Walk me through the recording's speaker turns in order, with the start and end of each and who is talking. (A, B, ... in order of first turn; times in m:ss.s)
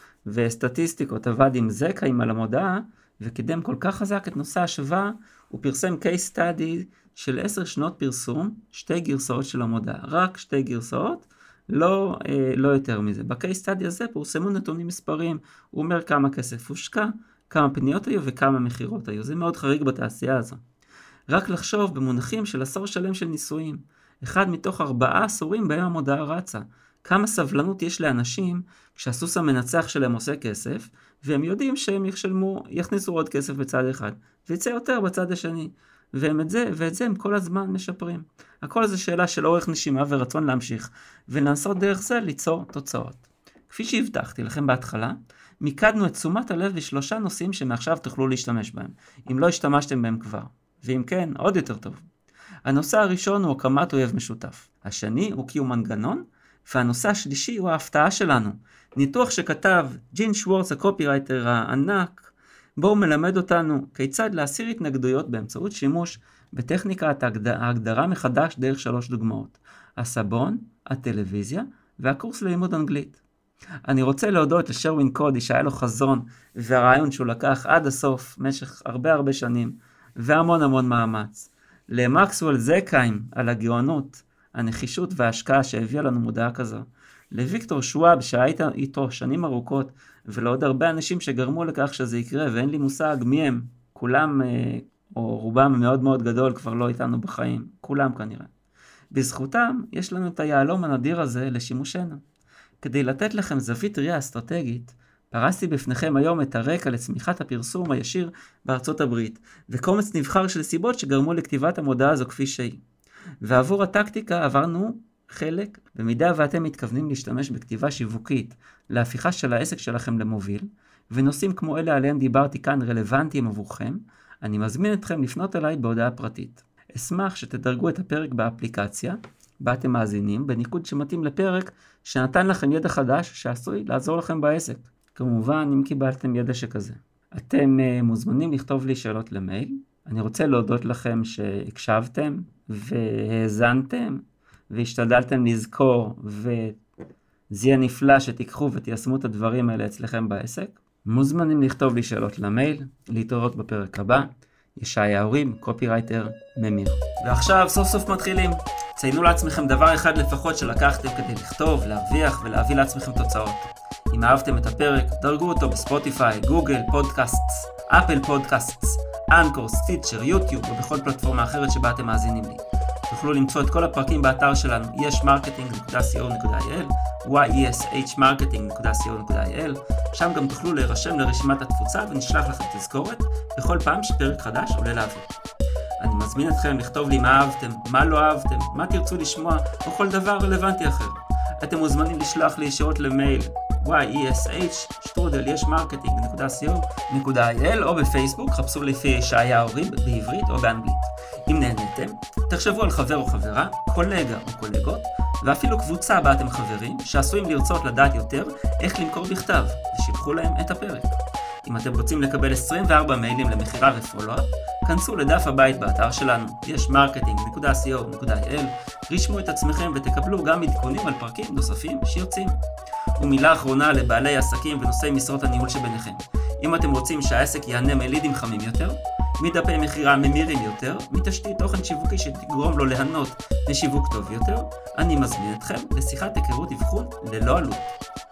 0:00.2-0:20.6 A
0:21.3-0:52.0 A
0:52.6-1:13.2 A
1:13.8-1:38.5 A
1:39.1-1:42.2 A
1:42.8-1:52.8 A
1:53.4-2:26.8 A
2:27.5-3:05.3 A
3:06.0-3:42.6 A
3:43.2-3:57.9 A